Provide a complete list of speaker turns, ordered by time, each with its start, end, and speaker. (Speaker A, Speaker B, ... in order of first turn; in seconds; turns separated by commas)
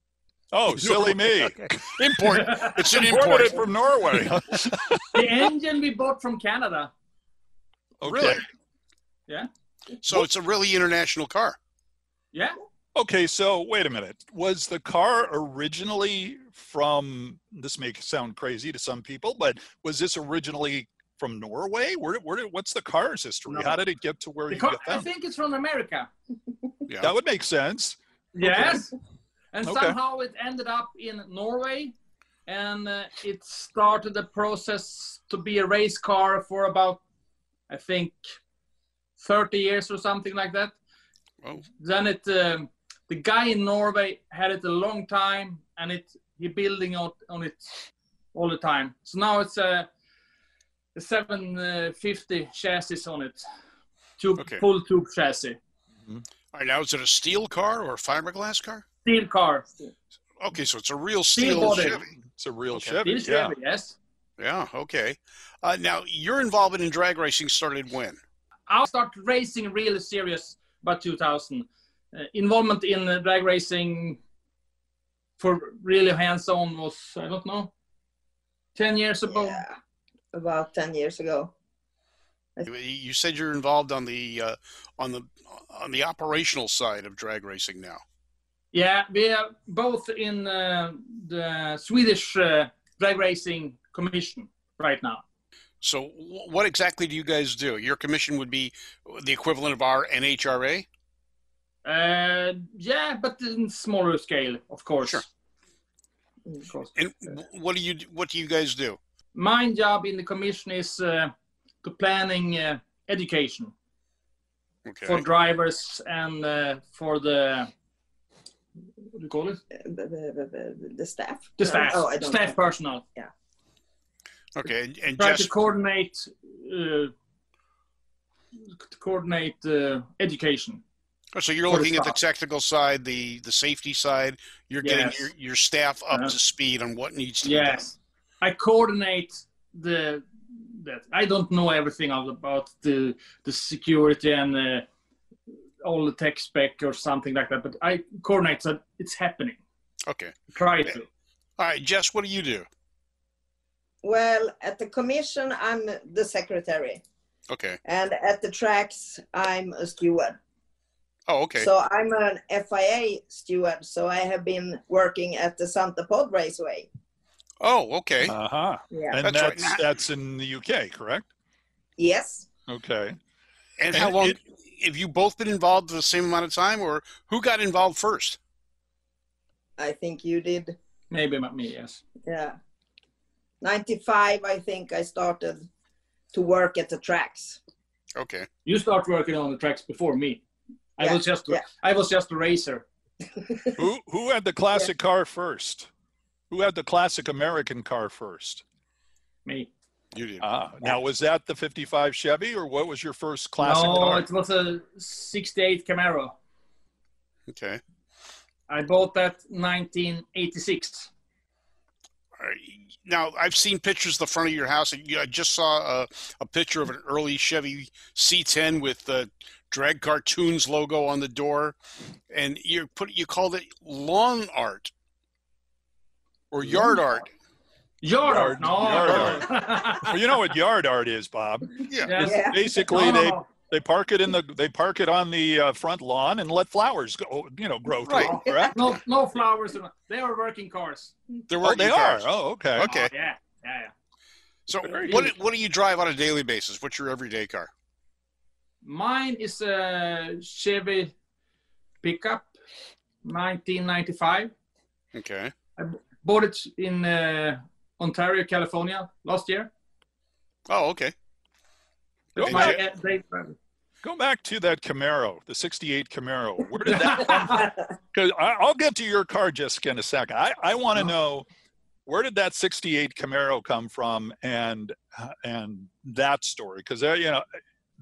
Speaker A: 0.5-5.3, Speaker B: 0.8-3.6, Speaker C: 2.3-2.8, Speaker C: 5.1-6.9, Speaker A: 8.0-8.4, Speaker C: 8.1-8.4, Speaker B: 10.0-11.6, Speaker C: 12.3-12.6, Speaker A: 12.9-25.1, Speaker C: 23.5-23.8, Speaker C: 24.5-26.1, Speaker A: 27.0-28.8, Speaker C: 28.4-28.9, Speaker C: 29.5-31.9, Speaker A: 29.6-30.0, Speaker C: 32.5-37.0, Speaker C: 37.7-38.2, Speaker C: 39.2-40.8, Speaker C: 41.8-47.8, Speaker C: 48.3-49.9, Speaker C: 51.0-53.5, Speaker C: 54.2-55.6, Speaker A: 56.0-56.2, Speaker B: 56.5-58.9, Speaker C: 59.0-59.7, Speaker B: 60.4-62.1, Speaker C: 61.4-62.0, Speaker A: 62.1-63.5, Speaker B: 62.7-63.0, Speaker C: 63.0-64.0, Speaker B: 64.4-68.2, Speaker C: 68.7-74.2, Speaker C: 75.4-77.7, Speaker C: 78.8-79.6, Speaker D: 79.3-79.8, Speaker D: 80.3-81.5, Speaker B: 82.7-88.0, Speaker C: 88.7-95.2, Speaker B: 95.8-100.9, Speaker C: 101.8-105.2, Speaker C: 106.7-106.9, Speaker B: 107.0-109.0, Speaker C: 109.3-111.3, Speaker C: 111.8-113.7, Speaker B: 114.9-115.3, Speaker C: 115.0-117.7, Speaker C: 119.2-119.6, Speaker D: 119.8-122.6, Speaker C: 121.6-123.0, Speaker B: 124.5-125.5, Speaker C: 125.2-127.1, Speaker C: 128.8-130.8, Speaker B: 131.3-137.8, Speaker C: 131.7-132.2, Speaker C: 134.8-135.3, Speaker C: 137.4-144.8, Speaker C: 145.8-149.6, Speaker B: 150.1-150.4, Speaker C: 150.5-151.1, Speaker B: 151.6-152.7, Speaker D: 154.0-157.0, Speaker B: 157.5-157.8, Speaker D: 157.8-160.4, Speaker B: 161.3-161.7, Speaker D: 161.6-166.9, Speaker B: 167.6-168.4, Speaker A: 168.2-171.3, Speaker D: 168.9-169.2, Speaker B: 169.2-169.8, Speaker D: 172.0-172.5, Speaker A: 172.7-173.2, Speaker B: 173.8-178.4, Speaker A: 173.9-174.4, Speaker D: 179.8-180.8, Speaker C: 181.1-182.0, Speaker D: 182.3-182.6, Speaker D: 183.6-185.7, Speaker D: 186.3-187.6, Speaker B: 188.2-188.5, Speaker C: 188.7-190.4, Speaker C: 191.0-192.8, Speaker D: 191.0-191.6, Speaker A: 193.8-195.9, Speaker A: 196.5-198.6, Speaker B: 200.1-201.0, Speaker A: 200.4-204.2, Speaker C: 203.6-206.3, Speaker B: 207.5-207.8, Speaker C: 208.7-211.1, Speaker B: 212.4-221.8, Speaker B: 222.3-224.9, Speaker B: 226.5-227.3, Speaker C: 228.0-230.2, Speaker A: 228.2-229.5, Speaker B: 229.0-229.4, Speaker A: 230.0-238.9, Speaker B: 231.9-232.1, Speaker C: 232.1-233.5, Speaker D: 232.2-232.8, Speaker B: 238.1-238.3, Speaker C: 238.1-241.1, Speaker D: 238.4-238.8, Speaker B: 241.5-243.1, Speaker A: 241.6-242.9, Speaker C: 242.8-243.9, Speaker B: 244.7-247.7, Speaker A: 244.8-245.3, Speaker C: 245.1-245.3, Speaker C: 248.8-251.1, Speaker C: 252.0-252.5, Speaker C: 253.2-254.5, Speaker B: 255.1-255.5, Speaker C: 255.8-259.7, Speaker B: 260.7-261.1, Speaker C: 262.4-263.6, Speaker A: 262.4-262.8, Speaker B: 262.4-262.8, Speaker A: 264.0-271.5, Speaker C: 266.9-267.6, Speaker A: 272.1-277.4